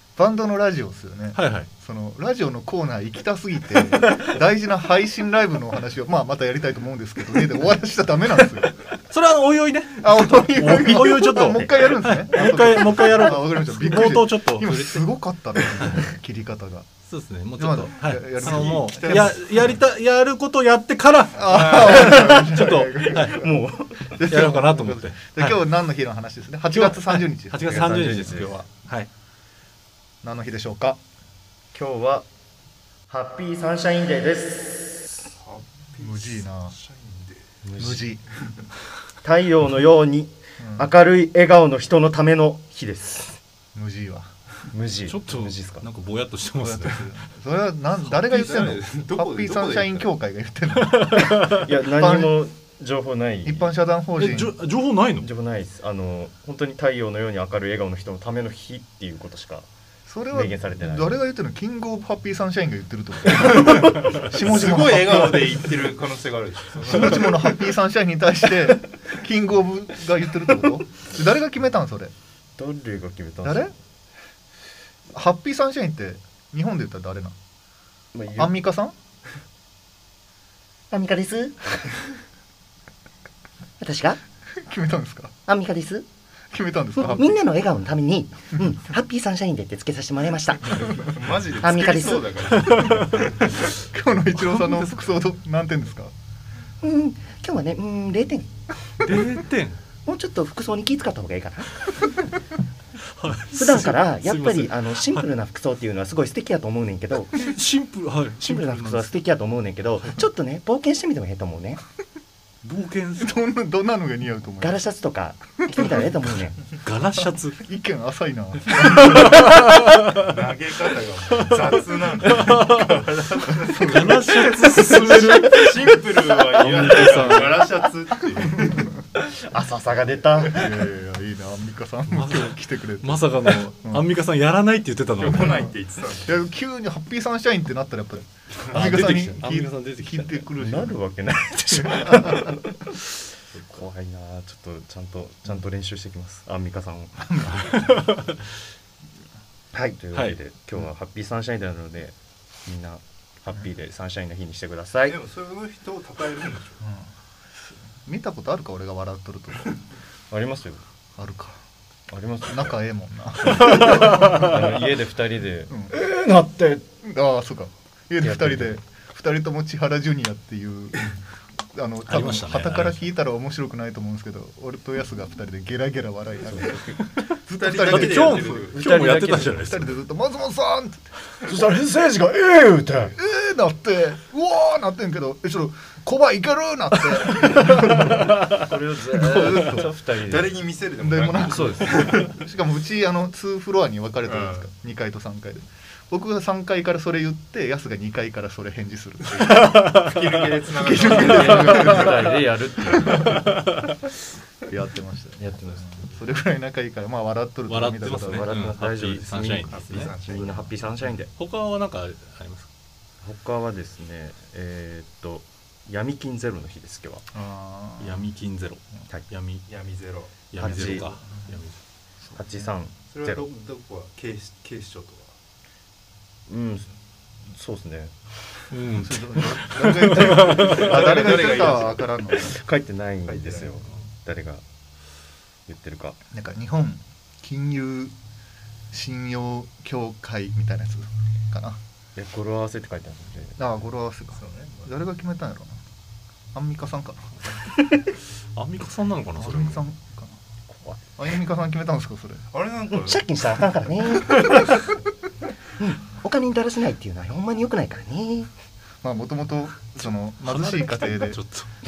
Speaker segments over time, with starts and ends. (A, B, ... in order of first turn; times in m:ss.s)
0:00.2-0:08.9 A
0:01.3-0:01.7 B
0:09.1-0:15.1 B
0:10.0-0:16.9 A
0:15.6-0:16.0 B
0:17.1-0:23.4 B
0:17.6-0:19.7 A
0:18.4-0:19.3 C
0:21.4-0:23.6 A
0:21.5-0:22.3 C
0:23.2-0:24.2 D
0:24.1-0:28.7 A
0:24.3-0:25.6 B
0:26.7-0:29.1 B
0:27.7-0:28.5 D
0:30.2-0:31.0 A
0:31.7-0:32.2 D
0:33.1-0:35.2 D
0:35.4-0:37.4 C
0:36.0-0:36.7 A
0:37.6-0:38.1 D
0:37.8-0:38.2 A
0:39.2-0:43.4 D
0:40.6-0:40.9 A
0:43.7-0:44.3 A
0:44.7-0:45.9 D
0:45.1-0:47.1 B
0:46.6-0:52.3 A
0:48.0-0:50.1 C
0:51.0-0:51.6 B
0:51.5-0:53.7 D
0:53.4-0:54.5 A
0:54.2-0:55.3 B
0:55.2-0:59.7 D
1:00.1-1:05.7 A
1:00.3-1:01.2 D
1:04.0-1:07.5 C
1:06.8-1:12.1 A
1:12.6-1:13.7 D
1:13.4-1:13.7 A
1:15.1-1:17.3 A
1:18.1-1:18.6 D
1:18.4-1:18.9 A
1:20.9-1:21.6 E
1:23.8-1:24.2 E
1:24.6-1:25.3 A
1:25.5-1:26.0 E
1:26.5-1:27.4 A
1:27.0-1:30.9 E
1:30.8-1:33.4 C
1:31.6-1:32.3 E
1:33.8-1:36.1 A
1:34.5-1:34.9 B
1:36.8-1:38.5 E
1:39.0-1:39.8 B
1:40.0-1:42.0 E
1:43.1-1:45.2 B
1:43.5-1:47.5 E
1:47.3-1:49.2 B
1:48.4-1:51.8 E
1:52.6-1:53.4 B
1:53.2-1:54.8 A
1:54.6-1:56.6 E
1:56.8-1:57.6 B
1:57.6-1:59.5 A
2:00.1-2:08.9 C
2:02.4-2:05.9 B
2:03.6-2:04.7 A
2:06.6-2:07.7 B
2:06.6-2:07.3 D
2:07.0-2:07.5 A
2:08.6-2:08.8 A
2:09.2-2:10.9 D
2:10.4-2:14.0 A
2:12.1-2:15.6 B
2:15.2-2:16.4 C
2:15.2-2:15.7 A
2:16.2-2:21.0 A
2:18.7-2:20.5 B
2:20.6-2:27.6 D
2:21.7-2:22.6 A
2:27.5-2:28.4 B
2:29.8-2:35.2 D
2:35.1-2:36.8 C
2:37.6-2:39.8 A
2:40.3-2:40.8 D
2:41.2-2:41.6 A
2:42.1-2:42.8 D
2:42.5-2:45.0 A
2:43.4-2:46.9 D
2:47.0-2:51.2 A
2:48.2-2:48.8 D
2:51.7-2:58.9 A
2:52.0-2:53.1 B
2:57.6-2:58.8 C
2:57.7-3:00.0 B
2:58.7-2:59.7 D
2:59.6-3:01.0 A
3:01.4-3:03.2 D
3:03.2-3:09.9 A
3:07.6-3:10.6 D
3:10.1-3:12.3 C
3:11.0-3:19.7 A
3:11.5-3:12.2 D
3:14.2-3:14.7 C
3:19.4-3:22.0 C
3:20.8-3:22.4 A
3:21.0-3:23.4 D
3:23.0-3:23.4 A
3:24.7-3:28.5 A
3:25.4-3:26.0 D
3:27.7-3:30.1 B
3:28.2-3:31.3 D
3:29.7-3:30.8 C
3:31.4-3:32.7 B
3:33.2-3:37.2 D
3:37.3-3:38.3 A
3:38.0-3:39.6 B
3:39.7-3:40.5 C
3:40.5-3:41.8 B
3:40.6-3:41.1 D
3:42.2-3:42.7 A
3:42.3-3:43.5 D
3:43.1-3:45.3 C
3:46.5-3:46.9 D
3:47.5-3:48.6 D
3:48.7-3:50.9 B
3:49.0-3:52.5 A
3:50.5-3:52.1 C
3:52.3-3:54.6 D
3:53.2-3:53.7 C
3:55.7-3:56.2 D
3:56.3-3:58.1 A
3:58.9-4:01.8 A
4:02.2-4:03.6 D
4:03.6-4:05.8 A
4:04.3-4:04.9 C
4:06.5-4:07.4 A
4:08.5-4:09.8 B
4:09.4-4:10.4 A
4:11.2-4:12.4 A
4:12.5-4:13.3 C
4:13.0-4:14.7 E
4:15.8-4:18.5 E
4:19.0-4:21.4 A
4:20.0-4:21.7 B